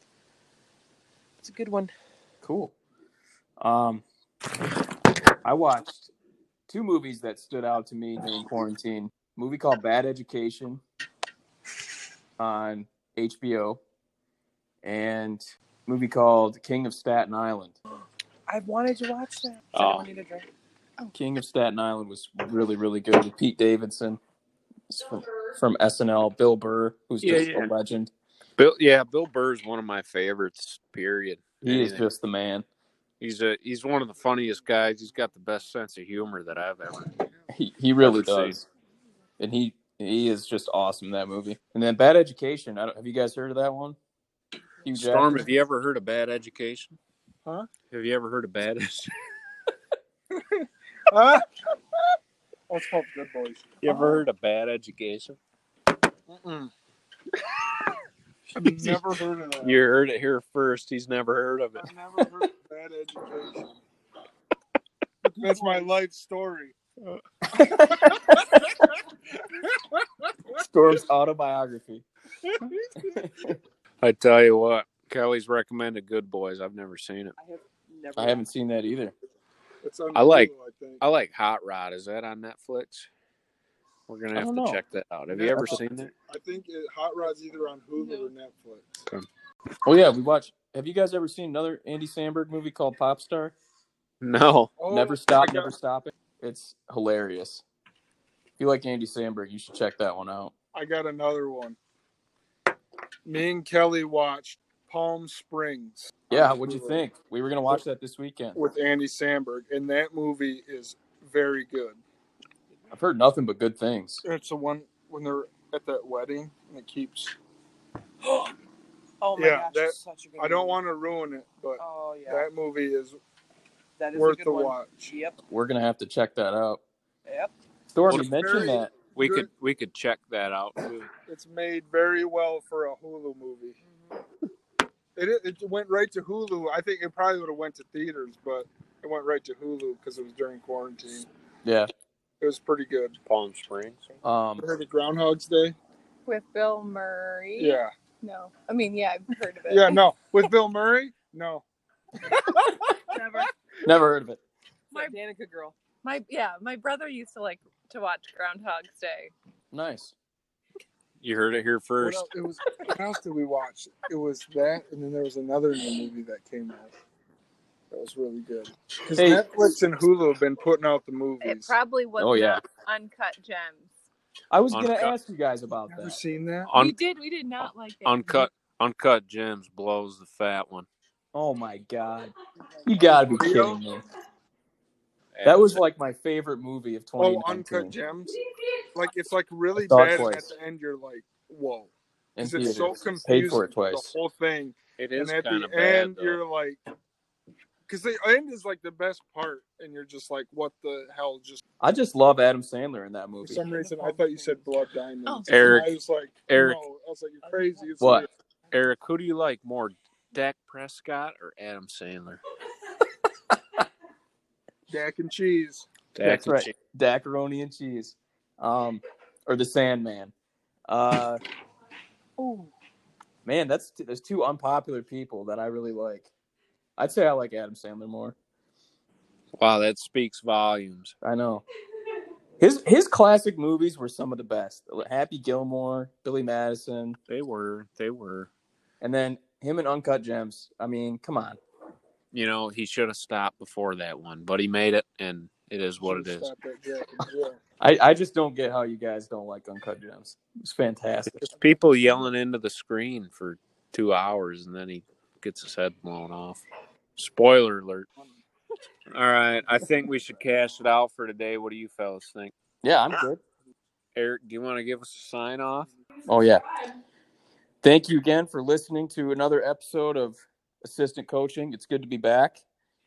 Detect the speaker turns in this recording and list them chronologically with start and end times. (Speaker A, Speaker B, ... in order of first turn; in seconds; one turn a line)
Speaker A: 1.4-1.9
Speaker B: 2.4-2.7
Speaker B: 3.6-4.0
Speaker B: 5.4-6.1
Speaker B: 6.7-10.8
Speaker B: 12.4-13.8
Speaker B: 14.8-17.8
Speaker A: 18.5-20.5
Speaker C: 19.7-20.1
Speaker B: 21.1-24.2
Speaker B: 24.9-28.1
Speaker C: 27.2-27.7
Speaker C: 28.6-32.1
Speaker B: 31.6-32.7
Speaker C: 33.2-37.2
Speaker B: 37.5-38.7
Speaker C: 38.0-38.6
Speaker B: 39.4-44.0
Speaker B: 44.9-45.5
Speaker C: 44.9-47.0
Speaker C: 47.9-49.1
Speaker D: 50.3-51.5
Speaker D: 52.7-54.2
Speaker C: 53.8-55.4
Speaker D: 56.3-56.7
Speaker D: 58.5-59.8
Speaker C: 59.6-61.9
Speaker D: 61.8-63.8
Speaker D: 65.2-66.8
Speaker A: 65.6-65.9
Speaker B: 67.5-68.8
Speaker D: 69.8-70.1
Speaker B: 70.7-72.0
Speaker D: 72.5-73.2
Speaker B: 73.2-73.6
Speaker C: 74.0-77.3
Speaker A: 77.4-78.4
Speaker B: 78.2-79.1
Speaker D: 79.8-81.0
Speaker C: 80.1-83.1
Speaker C: 84.1-86.1
Speaker B: 84.3-84.8
Speaker D: 85.3-89.0
Speaker B: 85.5-85.8
Speaker B: 89.8-93.5
Speaker C: 94.2-94.7
Speaker D: 94.8-95.7
Speaker B: 94.9-97.6
Speaker B: 98.6-100.5
Speaker D: 100.7-101.8
Speaker D: 103.3-107.0
Speaker B: 106.3-108.6
Speaker D: 108.6-112.0
Speaker B: 112.9-114.2
Speaker D: 114.2-117.3
Speaker A: 118.2-118.5
Speaker A: 119.2-120.8
Speaker D: 119.4-123.2
Speaker A: 121.8-122.5
Speaker A: 124.0-125.4
Speaker D: 124.1-125.1
Speaker B: 125.5-126.8
Speaker A: 127.3-127.5
Speaker B: 127.9-128.9
Speaker D: 128.1-129.5
Speaker C: 129.1-131.1
Speaker D: 131.3-133.8
Speaker D: 135.2-141.3
Speaker B: 141.6-141.9
Speaker D: 142.4-143.2
Speaker C: 143.3-144.1
Speaker B: 144.2-144.7
Speaker D: 144.6-145.8
Speaker E: 146.3-150.0
Speaker D: 147.6-147.9
Speaker D: 149.7-151.6
Speaker A: 153.1-153.5
Speaker B: 153.8-154.4
Speaker A: 154.9-155.8
Speaker E: 156.0-159.3
Speaker B: 159.7-160.2
Speaker C: 161.2-162.2
Speaker D: 162.0-166.9
Speaker D: 167.9-171.7
Speaker B: 169.2-169.4
Speaker E: 171.4-173.9
Speaker B: 172.2-172.6
Speaker B: 174.5-176.2
Speaker C: 174.7-175.2
Speaker D: 175.9-176.7
Speaker C: 176.7-177.0
Speaker E: 176.8-178.5
Speaker C: 177.6-180.9
Speaker B: 181.3-182.3
Speaker B: 182.9-184.0
Speaker D: 183.2-183.8
Speaker C: 185.3-185.8
Speaker B: 185.4-188.0
Speaker D: 187.2-188.4
Speaker D: 188.9-196.8
Speaker B: 189.8-190.5
Speaker B: 192.4-194.1
Speaker C: 195.0-196.4
Speaker D: 197.9-201.6
Speaker B: 201.8-203.7
Speaker D: 203.4-208.3
Speaker A: 203.7-204.8
Speaker C: 205.5-205.9
Speaker C: 206.5-206.8
Speaker B: 208.0-208.3
Speaker C: 208.7-212.4
Speaker D: 214.9-215.9
Speaker C: 216.2-216.7
Speaker B: 216.2-220.3
Speaker B: 220.9-221.4
Speaker A: 222.4-222.7
Speaker B: 223.4-226.3
Speaker B: 227.0-228.3
Speaker C: 229.6-231.2
Speaker B: 231.2-231.6
Speaker B: 232.6-237.2
Speaker C: 237.3-238.5
Speaker B: 239.0-241.6
Speaker C: 242.3-246.5
Speaker D: 246.0-247.6
Speaker B: 247.8-251.4
Speaker C: 251.2-256.6
Speaker C: 257.2-258.1
Speaker C: 259.1-262.5
Speaker B: 262.8-263.4
Speaker C: 264.2-265.9
Speaker B: 266.3-266.6
Speaker B: 267.8-272.6